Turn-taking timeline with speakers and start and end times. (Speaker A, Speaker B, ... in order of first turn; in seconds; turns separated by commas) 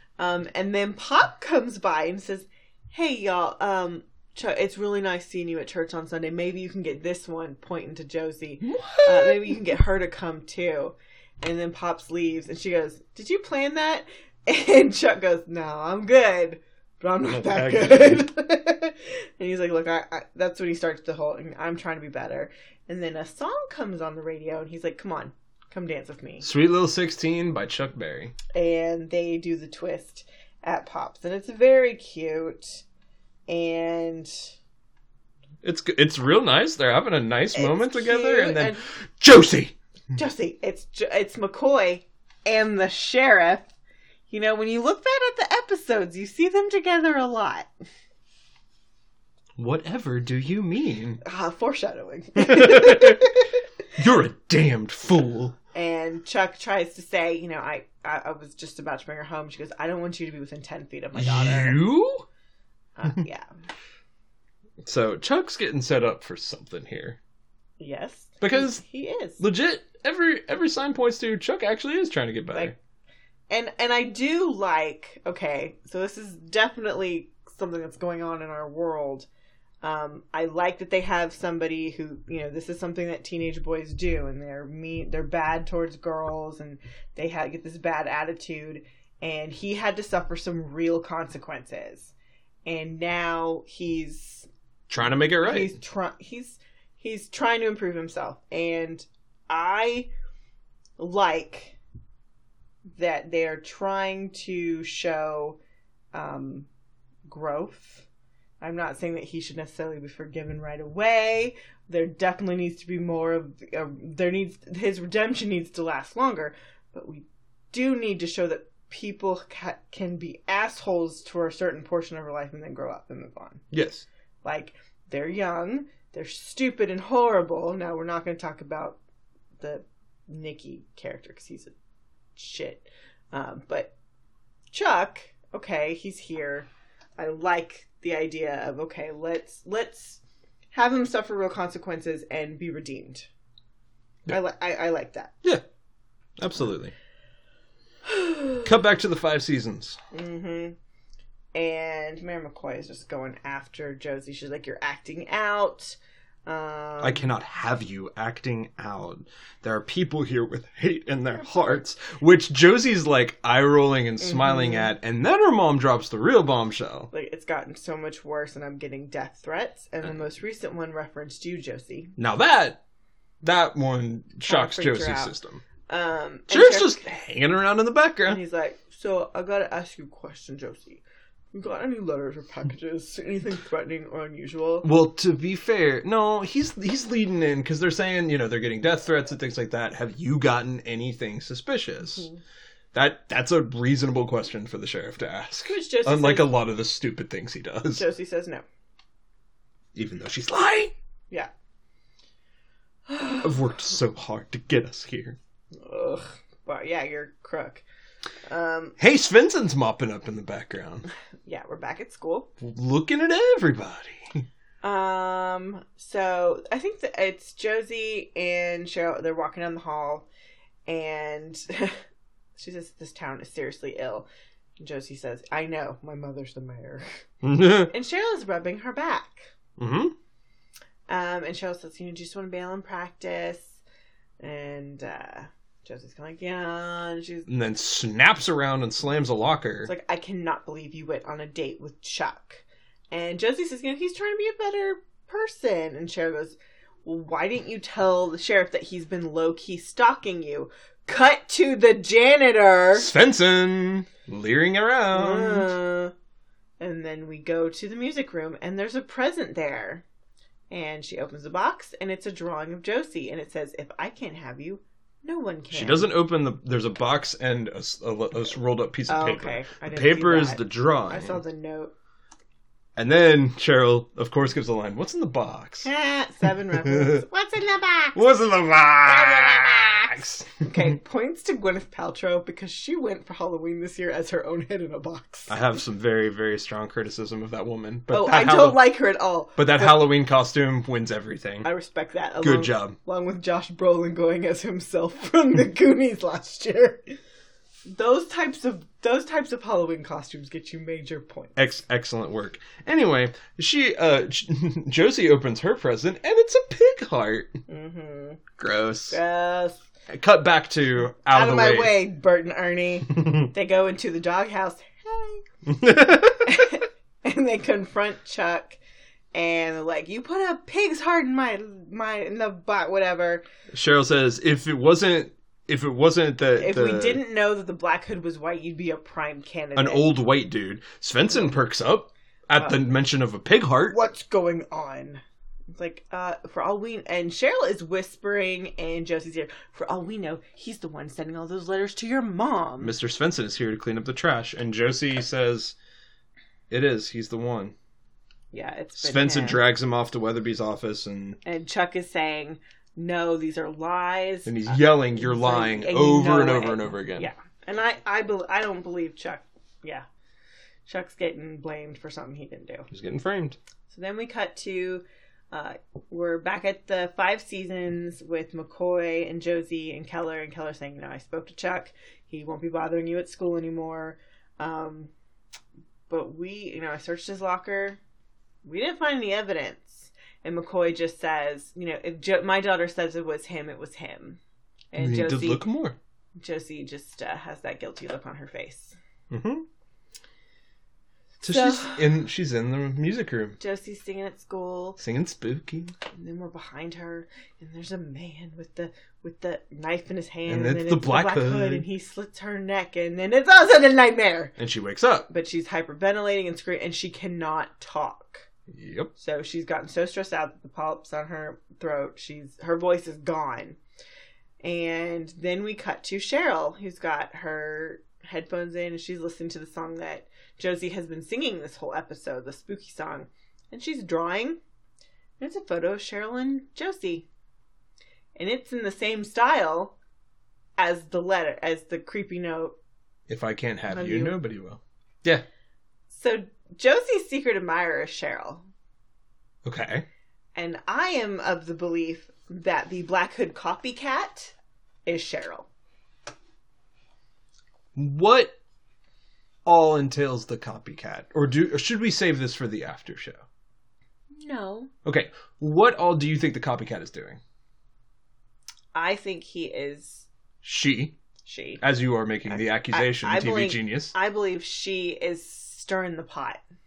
Speaker A: 0.2-26.5, Speaker B: 8.6-9.6, Speaker B: 17.2-18.3, Speaker B: 26.4-28.3, Speaker A: 28.5-32.8, Speaker A: 33.5-34.5, Speaker B: 35.6-39.7, Speaker A: 37.5-38.8, Speaker A: 40.1-43.7, Speaker A: 44.3-47.7, Speaker B: 49.6-51.2, Speaker A: 51.2-53.6, Speaker B: 52.4-53.2, Speaker B: 54.0-55.5, Speaker A: 55.7-61.8, Speaker B: 61.1-62.2, Speaker A: 63.0-63.5, Speaker B: 64.8-67.2, Speaker A: 67.8-69.4, Speaker B: 68.4-68.8, Speaker B: 69.4-72.7, Speaker A: 73.5-79.3, Speaker A: 79.8-92.1, Speaker A: 92.6-94.5, Speaker B: 94.9-95.7, Speaker A: 95.4-100.1, Speaker A: 101.0-101.8, Speaker A: 103.0-105.6, Speaker A: 106.1-106.7, Speaker A: 107.3-108.0, Speaker A: 108.6-123.6, Speaker B: 123.7-124.0, Speaker A: 124.4-129.0, Speaker A: 129.6-131.7, Speaker A: 132.3-133.9, Speaker A: 134.7-140.2, Speaker A: 140.7-143.3, Speaker A: 144.3-145.3, Speaker B: 146.4-146.9, Speaker A: 148.1-148.5, Speaker B: 148.6-150.0, Speaker A: 150.1-150.8, Speaker A: 151.5-157.3, Speaker B: 157.0-167.1, Speaker A: 161.4-161.8, Speaker A: 164.2-164.9, Speaker A: 167.1-172.1, Speaker B: 172.2-172.8, Speaker B: 173.4-175.6, Speaker A: 174.4-175.3, Speaker A: 175.9-177.0, Speaker B: 176.5-178.4, Speaker A: 178.3-184.9, Speaker B: 184.8-192.3, Speaker B: 192.9-198.0, Speaker A: 195.7-196.5, Speaker A: 197.9-198.6, Speaker B: 199.9-200.9, Speaker A: 203.1-203.5, Speaker B: 203.4-205.4, Speaker A: 205.8-207.8, Speaker A: 208.4-209.0, Speaker B: 209.0-211.1, Speaker A: 211.4-212.5, Speaker B: 212.6-214.4, Speaker A: 214.8-220.2, Speaker A: 220.9-222.0, Speaker A: 222.6-224.3, Speaker A: 224.8-227.2, Speaker B: 227.4-227.9, Speaker A: 227.8-229.5, Speaker B: 229.8-230.1, Speaker A: 231.1-233.8, Speaker A: 234.4-237.5, Speaker B: 237.5-239.9, Speaker A: 239.8-253.1, Speaker B: 252.9-255.7, Speaker A: 255.1-256.1, Speaker A: 256.8-260.0, Speaker A: 260.7-266.1, Speaker B: 265.7-271.4, Speaker A: 269.1-271.9, Speaker B: 272.9-275.9, Speaker A: 275.8-278.2, Speaker B: 276.8-277.2, Speaker B: 278.1-280.5, Speaker A: 279.0-285.6, Speaker B: 285.5-288.9, Speaker A: 288.1-290.0, Speaker B: 289.6-291.7, Speaker A: 291.6-297.1, Speaker B: 292.4-293.0, Speaker A: 297.9-301.6, Speaker B: 301.6-307.6, Speaker A: 307.7-308.4, Speaker B: 308.6-309.2, Speaker A: 309.1-309.8, Speaker B: 310.1-312.0, Speaker A: 311.3-315.4, Speaker B: 313.1-313.5, Speaker B: 315.6-316.7, Speaker A: 316.1-318.8, Speaker A: 319.3-323.4, Speaker B: 323.7-327.2, Speaker A: 326.6-330.1, Speaker B: 329.8-334.0, Speaker A: 331.3-331.6, Speaker A: 333.9-335.2, Speaker A: 335.7-342.9, Speaker B: 342.8-345.7, Speaker B: 346.7-347.7, Speaker A: 348.5-349.6, Speaker B: 348.9-351.4, Speaker A: 351.4-360.1, Speaker B: 354.4-357.3, Speaker A: 360.9-362.9, Speaker B: 362.9-363.6, Speaker A: 363.9-375.1, Speaker A: 376.1-378.0, Speaker A: 378.6-384.4, Speaker A: 384.9-385.6, Speaker B: 385.0-386.0, Speaker A: 386.4-388.9, Speaker B: 389.3-389.6, Speaker B: 391.4-393.6, Speaker A: 391.4-392.0, Speaker A: 393.6-395.0, Speaker B: 395.0-395.9, Speaker A: 396.1-404.5, Speaker B: 400.5-401.8, Speaker B: 404.6-405.3, Speaker A: 405.3-408.5, Speaker B: 408.7-409.1, Speaker A: 409.2-413.8, Speaker A: 414.6-424.6, Speaker A: 425.4-427.3, Speaker A: 428.4-430.0, Speaker A: 430.8-432.8, Speaker B: 433.3-435.4, Speaker A: 433.9-434.4, Speaker A: 436.1-438.7, Speaker B: 439.6-440.1, Speaker A: 440.6-444.5, Speaker A: 445.1-445.7, Speaker B: 447.9-448.5, Speaker B: 449.6-453.4, Speaker A: 454.4-454.9, Speaker B: 455.0-457.4, Speaker A: 458.9-460.3, Speaker B: 460.6-461.2, Speaker A: 461.4-461.8, Speaker B: 461.8-464.1, Speaker A: 462.5-466.6